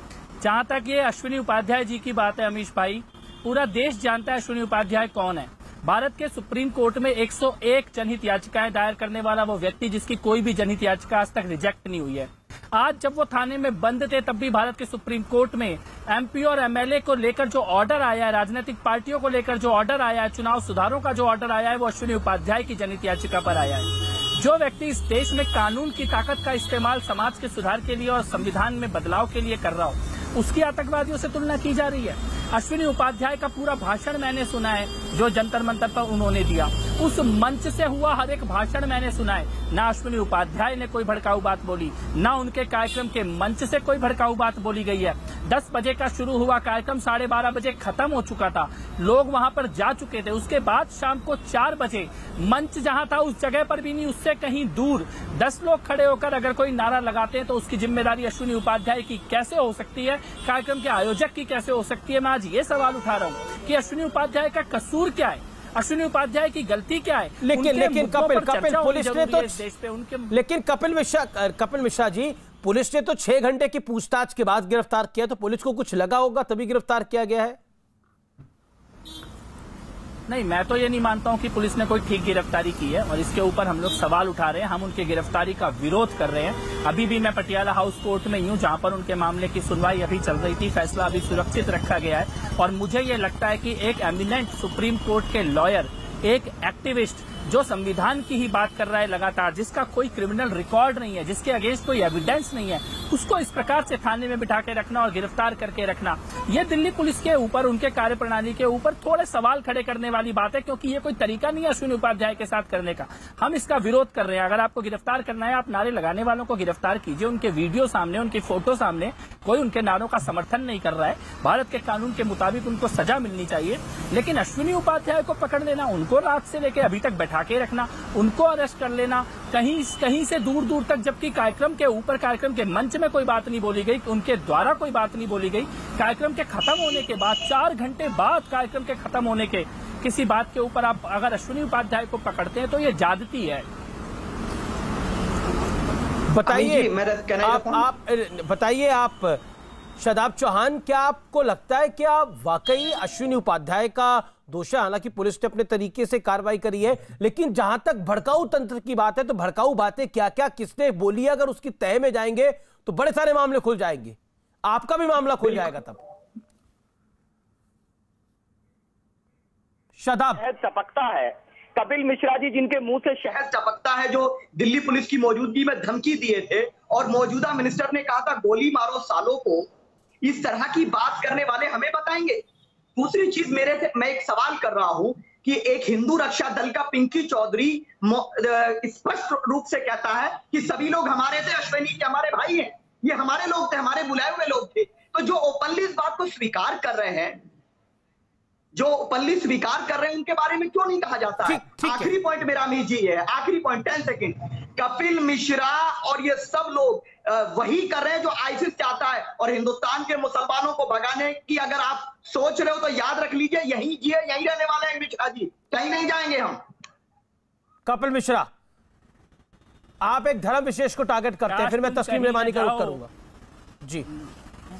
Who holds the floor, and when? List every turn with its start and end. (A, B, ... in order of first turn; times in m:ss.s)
0:00.4-1:10.3 A
1:07.4-1:09.6 B
1:10.3-1:17.6 B
1:20.3-2:23.6 A
2:26.3-2:26.9 B
2:26.4-2:27.8 C
2:27.4-2:29.4 B
2:30.0-2:46.0 B
2:50.0-2:50.4 B
2:50.5-2:53.1 D
2:53.0-2:59.7 C
3:00.2-3:02.4 C
3:03.0-3:17.4 C
3:18.7-3:36.6 C
3:21.4-3:22.1 B
3:37.8-3:38.5 B
3:40.0-3:43.1 B
3:41.5-3:43.0 A